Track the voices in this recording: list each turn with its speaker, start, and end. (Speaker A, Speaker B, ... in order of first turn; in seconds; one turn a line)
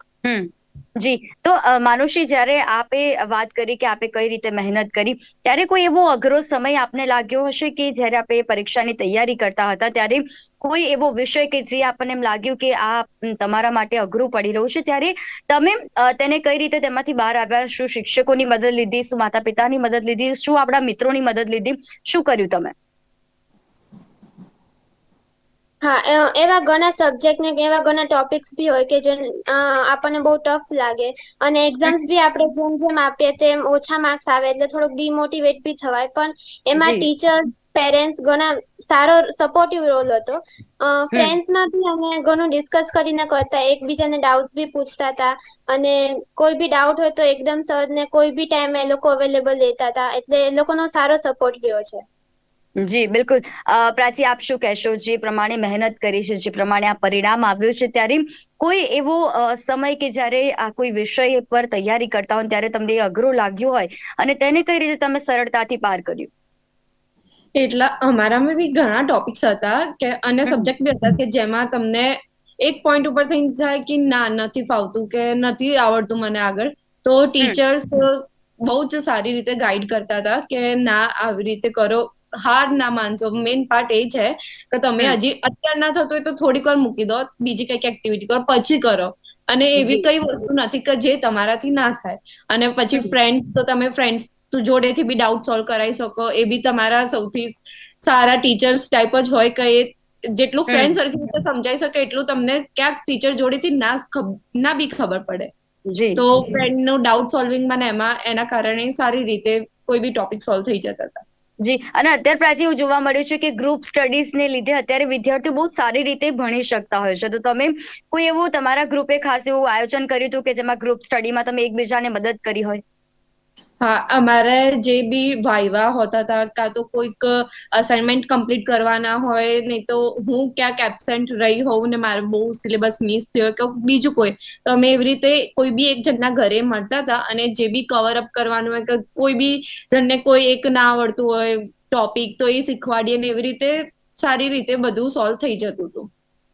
Speaker A: 0.2-22.7
Speaker B: 25.8-52.0
Speaker A: 36.8-37.1
Speaker A: 52.8-66.3
Speaker C: 67.6-105.5
Speaker A: 89.8-90.1
Speaker A: 100.7-101.0
Speaker A: 105.9-106.2
Speaker C: 106.2-111.2
Speaker A: 111.6-122.8
Speaker C: 123.8-146.1